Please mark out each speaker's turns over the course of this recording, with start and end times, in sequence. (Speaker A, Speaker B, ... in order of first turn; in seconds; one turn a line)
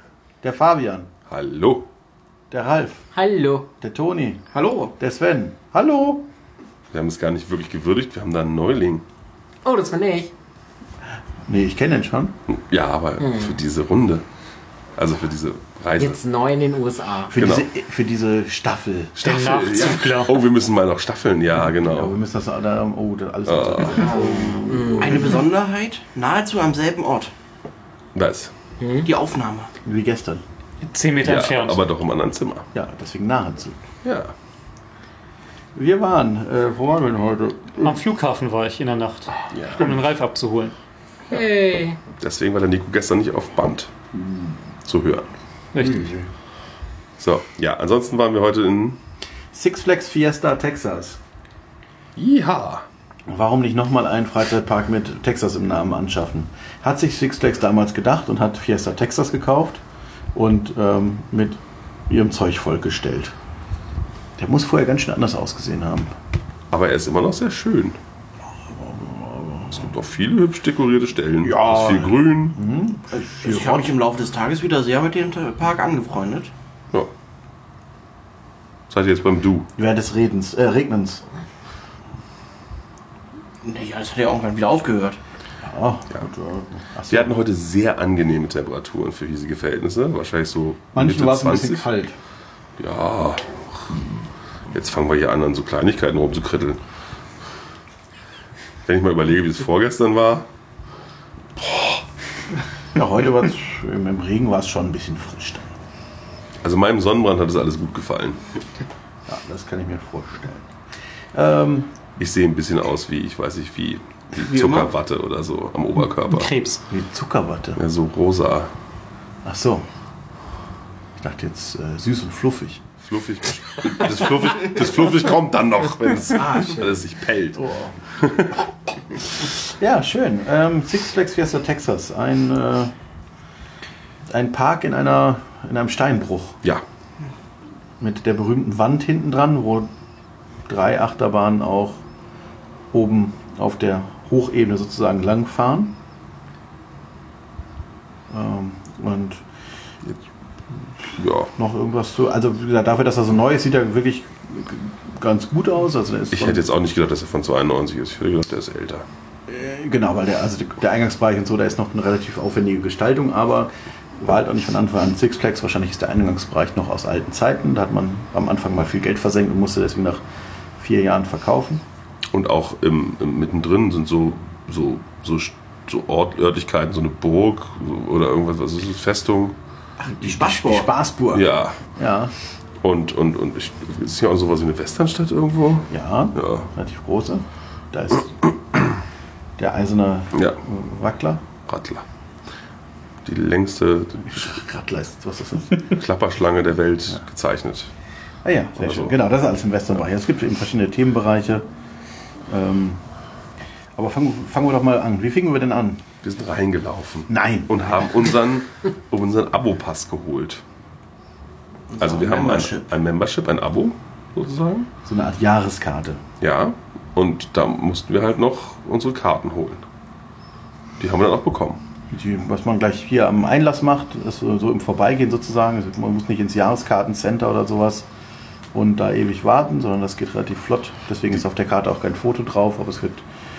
Speaker A: 0.4-1.1
Speaker B: 1.3-1.9
Speaker A: 2.5-3.0
Speaker C: 3.1-3.7
Speaker A: 3.8-4.4
Speaker D: 4.5-4.9
Speaker A: 5.0-6.2
Speaker B: 6.9-9.0
Speaker C: 9.6-10.3
Speaker A: 11.4-12.4
Speaker B: 12.5-14.2
Speaker C: 13.2-13.5
Speaker B: 14.9-16.2
Speaker C: 16.0-17.3
Speaker A: 17.3-19.2
Speaker B: 17.3-17.7
Speaker B: 19.2-22.2
Speaker E: 19.2-20.4
Speaker A: 21.7-25.4
Speaker B: 23.4-24.1
Speaker C: 24.0-25.4
Speaker D: 25.0-27.3
Speaker B: 28.1-28.5
Speaker C: 28.8-29.1
Speaker D: 29.0-29.7
Speaker A: 29.8-30.4
Speaker E: 30.8-31.8
Speaker B: 31.2-32.7
Speaker A: 32.7-33.8
Speaker B: 34.0-34.3
Speaker A: 35.7-38.0
Speaker E: 37.8-40.7
Speaker B: 39.5-39.9
Speaker C: 41.3-42.0
Speaker B: 42.1-43.9
Speaker B: 44.8-45.3
Speaker E: 45.7-46.1
Speaker A: 45.8-46.2
Speaker B: 47.2-49.0
Speaker A: 49.5-51.2
Speaker B: 52.1-52.9
Speaker A: 53.3-59.8
Speaker A: 60.3-63.3
Speaker A: 64.4-66.1
Speaker B: 66.7-68.0
Speaker A: 68.7-69.8
Speaker B: 69.7-72.6
Speaker A: 71.4-73.9
Speaker D: 73.2-76.5
Speaker B: 78.9-79.7
Speaker A: 79.8-81.2
Speaker D: 83.6-85.2
Speaker A: 85.6-87.3
Speaker B: 87.1-91.9
Speaker A: 90.9-92.2
Speaker B: 92.8-94.0
Speaker B: 94.7-96.8
Speaker B: 98.8-100.5
Speaker B: 101.6-102.0
Speaker A: 102.9-105.7
Speaker B: 106.6-108.5
Speaker A: 109.3-110.7
Speaker A: 111.3-111.9
Speaker B: 112.2-116.5
Speaker D: 114.3-114.9
Speaker E: 116.3-116.8
Speaker A: 116.9-117.8
Speaker B: 117.8-118.7
Speaker A: 119.4-119.9
Speaker A: 121.2-122.8
Speaker B: 123.0-127.6
Speaker A: 126.4-126.9
Speaker A: 127.5-128.0
Speaker B: 128.2-128.6
Speaker A: 129.4-132.9
Speaker A: 134.3-136.6
Speaker A: 138.0-139.9
Speaker A: 140.7-142.0
Speaker A: 142.9-145.9
Speaker A: 148.3-149.4
Speaker B: 151.2-151.5
Speaker A: 151.5-156.6
Speaker B: 156.3-159.1
Speaker A: 159.5-170.2
Speaker A: 170.8-171.8
Speaker B: 172.3-179.6
Speaker D: 180.1-180.9
Speaker A: 180.1-182.3
Speaker B: 181.3-181.8
Speaker B: 182.8-186.7
Speaker A: 185.9-188.4
Speaker A: 189.6-191.4
Speaker B: 191.7-192.0
Speaker B: 193.2-194.6
Speaker A: 194.2-195.9
Speaker B: 195.8-197.9
Speaker A: 198.4-201.7
Speaker B: 198.8-199.1
Speaker A: 202.5-203.0
Speaker A: 203.9-206.0
Speaker B: 206.2-210.6
Speaker A: 207.3-208.3
Speaker D: 211.9-212.9
Speaker B: 212.0-214.9
Speaker A: 215.0-216.2
Speaker B: 216.4-219.8
Speaker B: 221.0-221.8
Speaker A: 222.1-228.1
Speaker A: 228.7-233.2